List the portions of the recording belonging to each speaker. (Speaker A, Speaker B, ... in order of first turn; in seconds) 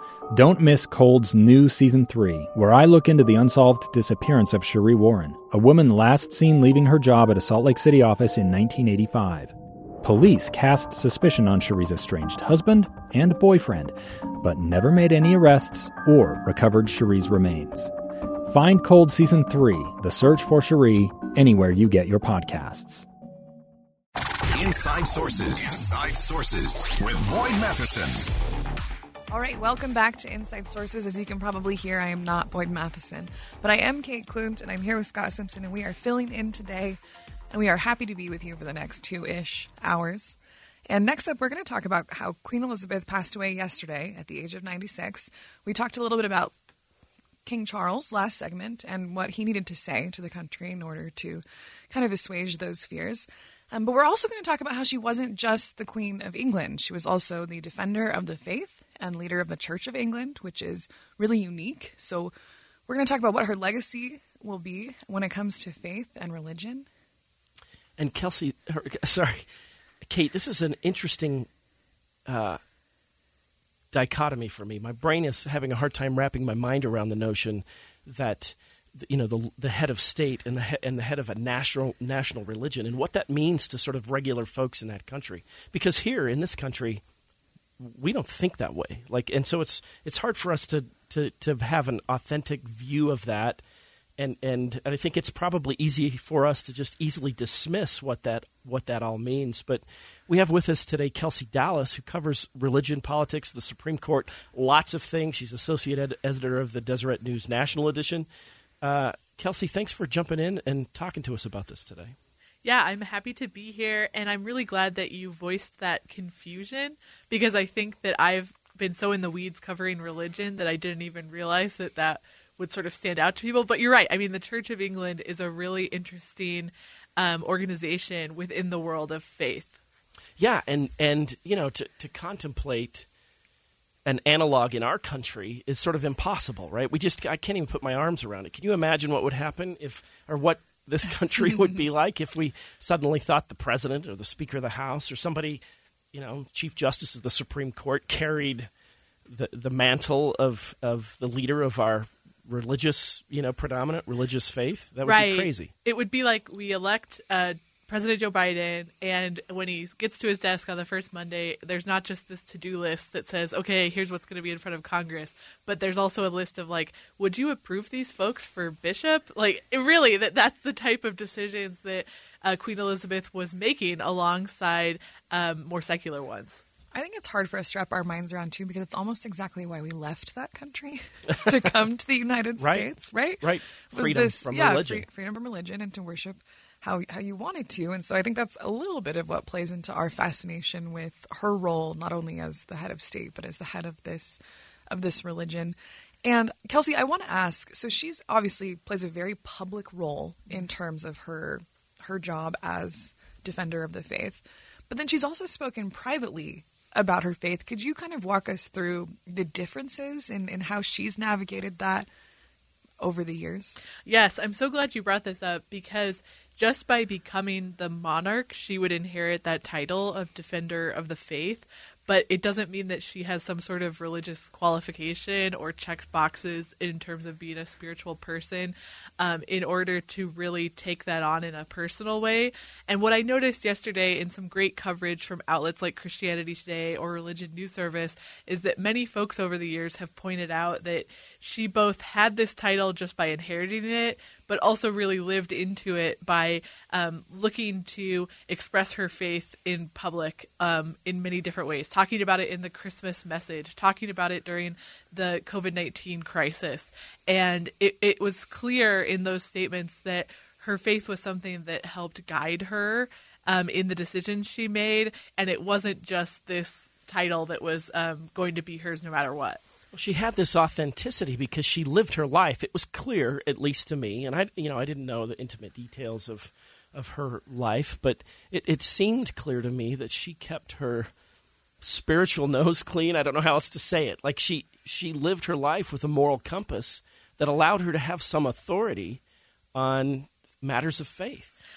Speaker A: 0.3-17.9, 18.4-23.1
Speaker B: 24.5-28.2
Speaker C: 29.3-37.0, 37.5-40.4, 40.9-46.5, 47.4-62.3, 62.9-66.9, 176.9-212.1, 213.0-213.8
Speaker D: 68.0-69.5, 70.0-71.5, 72.3-72.6, 73.9-87.0, 87.8-93.6, 94.2-108.3, 108.8-112.2, 130.4-133.1, 134.1-145.6, 146.1-148.7, 149.3-155.7, 182.6-185.1, 269.9-281.1, 281.8-289.2, 289.7-291.5
Speaker E: 112.6-129.8, 155.0-176.6, 214.0-269.6